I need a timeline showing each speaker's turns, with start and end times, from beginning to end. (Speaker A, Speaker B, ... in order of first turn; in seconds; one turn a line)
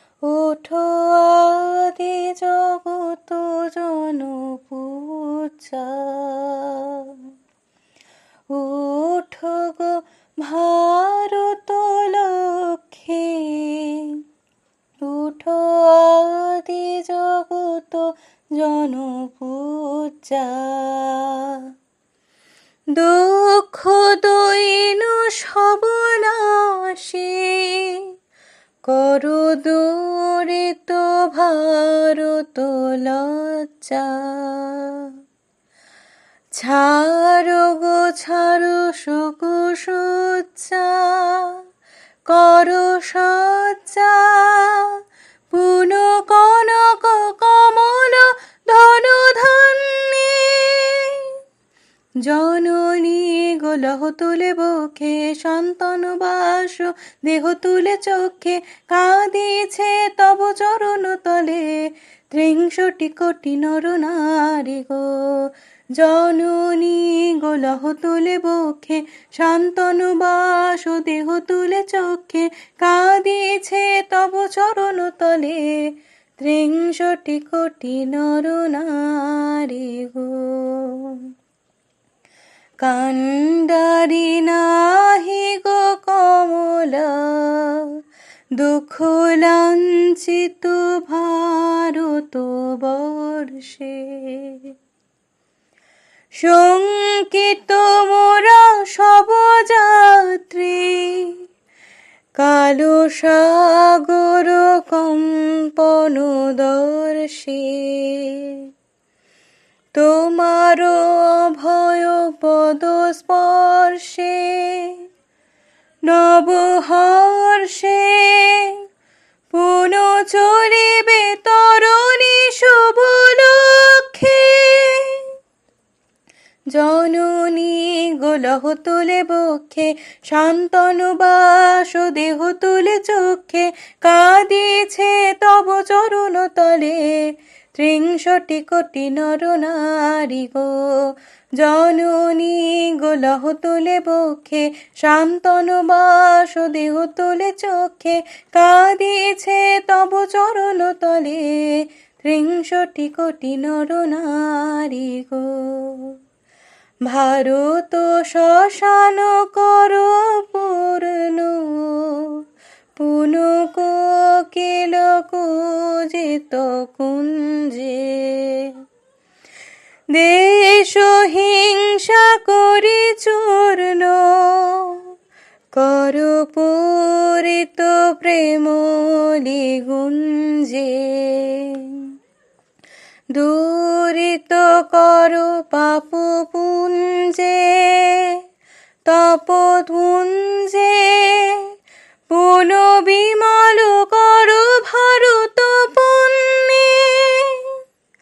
Speaker A: 0.2-7.3
Speaker A: 8.5-14.2
Speaker A: 15.0-21.7
Speaker A: 22.9-28.1
Speaker A: 28.8-35.1
Speaker A: 36.5-41.6
Speaker A: 42.2-45.0
Speaker A: 45.5-51.4
Speaker A: 52.2-81.2
Speaker A: 82.8-88.0
Speaker A: 88.5-94.7
Speaker A: 96.4-101.4
Speaker A: 102.3-108.7
Speaker A: 109.9-115.0
Speaker A: 116.0-118.8
Speaker A: 119.5-125.3
Speaker A: 126.7-156.2
Speaker A: 157.1-162.4
Speaker A: 163.0-168.7
Speaker A: 170.1-175.1
Speaker A: 175.7-182.1
Speaker A: 183.3-188.4
Speaker A: 189.0-191.7
Speaker A: 192.3-197.8